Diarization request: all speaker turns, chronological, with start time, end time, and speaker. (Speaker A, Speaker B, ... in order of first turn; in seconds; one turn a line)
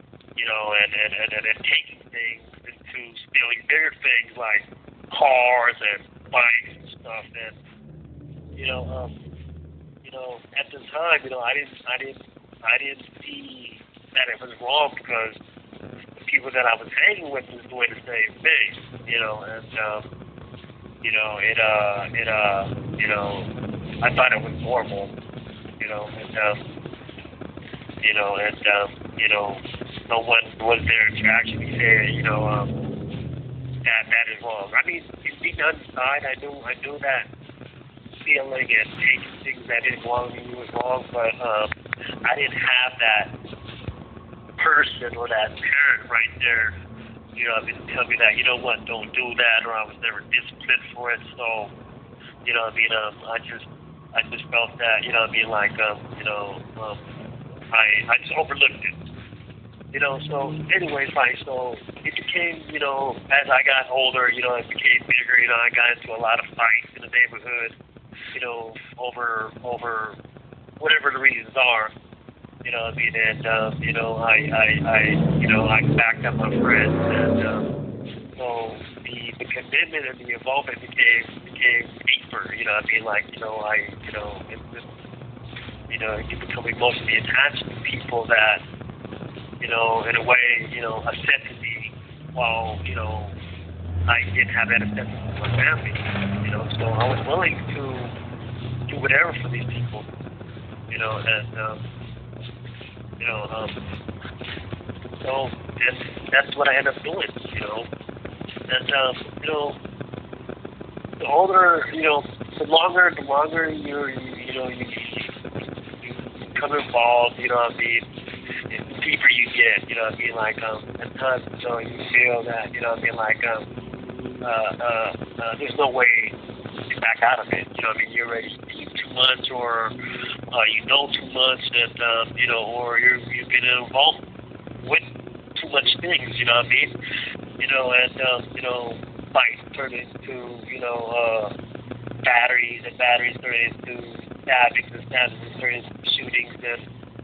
Speaker A: 0.4-7.6
Speaker A: 8.6-9.2
Speaker A: 10.0-15.4
Speaker A: 16.2-20.1
Speaker A: 21.0-23.5
Speaker A: 24.0-25.1
Speaker A: 25.8-26.6
Speaker A: 28.0-32.7
Speaker A: 33.8-37.3
Speaker A: 38.2-41.7
Speaker A: 42.2-43.4
Speaker A: 44.6-46.8
Speaker A: 47.4-51.7
Speaker A: 52.4-57.0
Speaker A: 57.7-59.0
Speaker A: 59.9-67.8
Speaker A: 68.3-70.2
Speaker A: 70.8-71.9
Speaker A: 72.6-77.7
Speaker A: 78.4-84.9
Speaker A: 85.9-88.6
Speaker A: 89.6-93.4
Speaker A: 94.1-98.1
Speaker A: 98.9-100.1
Speaker A: 100.9-101.8
Speaker A: 103.2-103.8
Speaker A: 105.2-107.9
Speaker A: 108.7-109.8
Speaker A: 111.2-115.3
Speaker A: 116.4-118.0
Speaker A: 118.7-123.7
Speaker A: 124.4-126.4
Speaker A: 126.9-130.0
Speaker A: 130.5-134.2
Speaker A: 135.6-137.0
Speaker A: 137.6-141.5
Speaker A: 142.2-146.9